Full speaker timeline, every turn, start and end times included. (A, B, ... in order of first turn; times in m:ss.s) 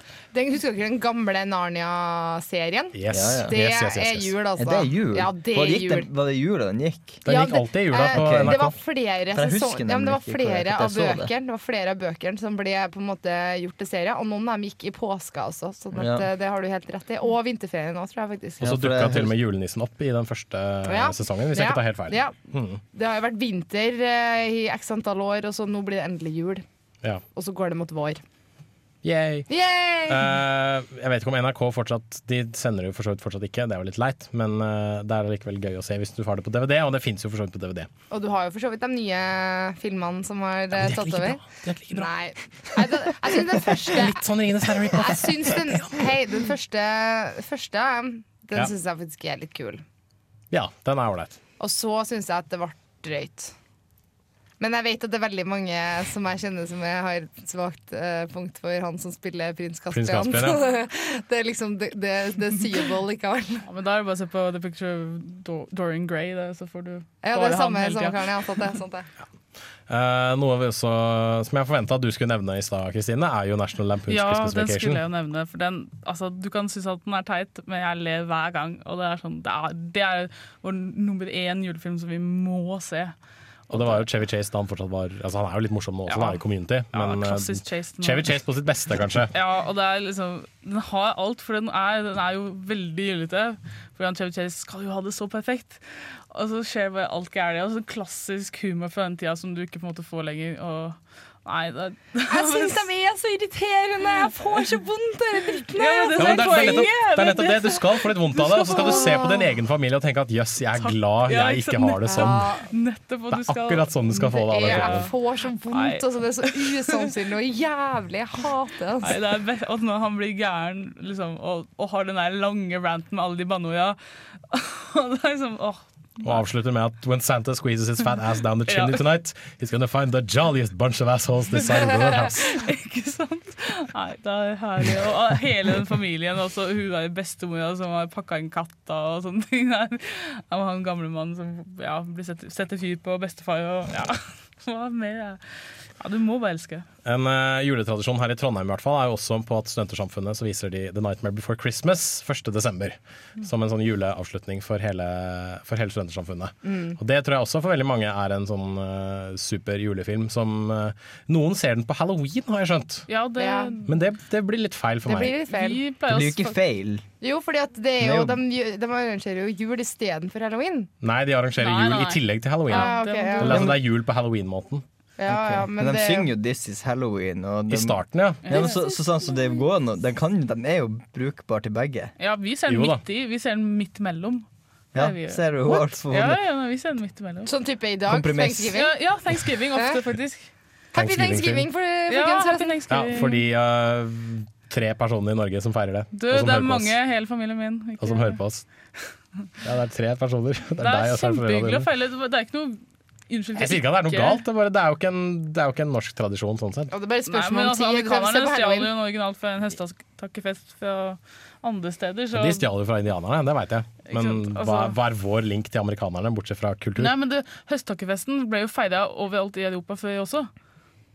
0:00.3-0:06.1 A
0:02.9-0:04.3 B
0:03.1-0:03.5 C
0:04.6-0:07.2 C
0:07.2-0:08.7 B
0:07.3-0:18.7 A
0:08.0-0:08.7 C
0:09.3-0:11.3 C
0:15.9-0:16.3 C
0:18.6-0:19.3 C
0:18.6-0:22.8 B
0:20.8-0:22.3 A
0:22.9-0:26.6 A
0:27.3-0:28.2 A
0:29.0-0:29.5 B
0:29.5-0:30.4 A
0:30.1-0:37.9 B
0:38.1-0:44.2 A
0:40.7-0:42.1 B
0:43.8-0:46.0 B
0:44.8-0:49.8 A
0:50.5-0:51.4 B
0:51.6-0:53.5 A
0:54.6-1:03.6 A
0:59.9-1:00.6 B
1:03.6-1:08.2 D
1:07.2-1:09.1 A
1:09.9-1:15.0 B
1:14.1-1:23.1 D
1:23.7-1:24.0 D
1:23.7-1:29.3 B
1:26.1-1:28.3 D
1:29.3-1:42.8 D
1:42.3-1:46.8 A
1:44.1-1:44.7 D
1:45.8-1:49.5 D
1:46.2-1:52.5 B
1:50.7-1:55.1 D
1:52.1-1:52.6 A
1:53.3-1:55.1 B
1:54.2-1:59.2 A
1:55.7-1:57.1 D
1:59.0-2:04.0 D
2:04.5-2:06.4 D
2:06.2-2:12.5 B
2:08.7-2:09.0 D
2:11.6-2:25.4 D
2:26.0-2:26.8 D
2:27.0-2:43.1 B
2:36.6-2:37.0 A
2:43.1-2:43.9 D
2:43.4-2:43.8 A
2:43.9-2:45.4 B
2:45.0-2:45.8 A
2:45.5-2:46.6 D
2:46.0-2:47.0 C
2:47.2-2:50.9 A
2:48.0-2:48.4 C
2:51.0-2:54.8 B
2:51.6-2:53.5 D
2:52.7-2:53.7 A
2:53.4-2:53.8 C
2:55.2-2:56.3 A
2:55.2-3:02.1 C
2:57.7-2:58.7 B
2:58.4-2:59.0 D
3:02.2-3:07.5 D
3:02.7-3:03.0 B
3:04.9-3:06.4 C
3:07.4-3:08.9 A
3:08.1-3:08.8 C
3:08.7-3:10.5 D
3:09.7-3:10.0 A
3:10.9-3:12.8 A
3:10.9-3:11.7 B
3:12.1-3:13.4 D
3:12.9-3:16.9 B
3:16.1-3:18.4 D
3:18.0-3:18.6 B
3:19.6-3:21.9 B
3:20.8-3:24.4 D
3:23.6-3:26.9 B
3:26.9-3:28.9 A
3:27.3-3:32.6 D
3:32.3-3:37.1 B
3:34.1-3:34.9 D
3:37.0-3:40.5 D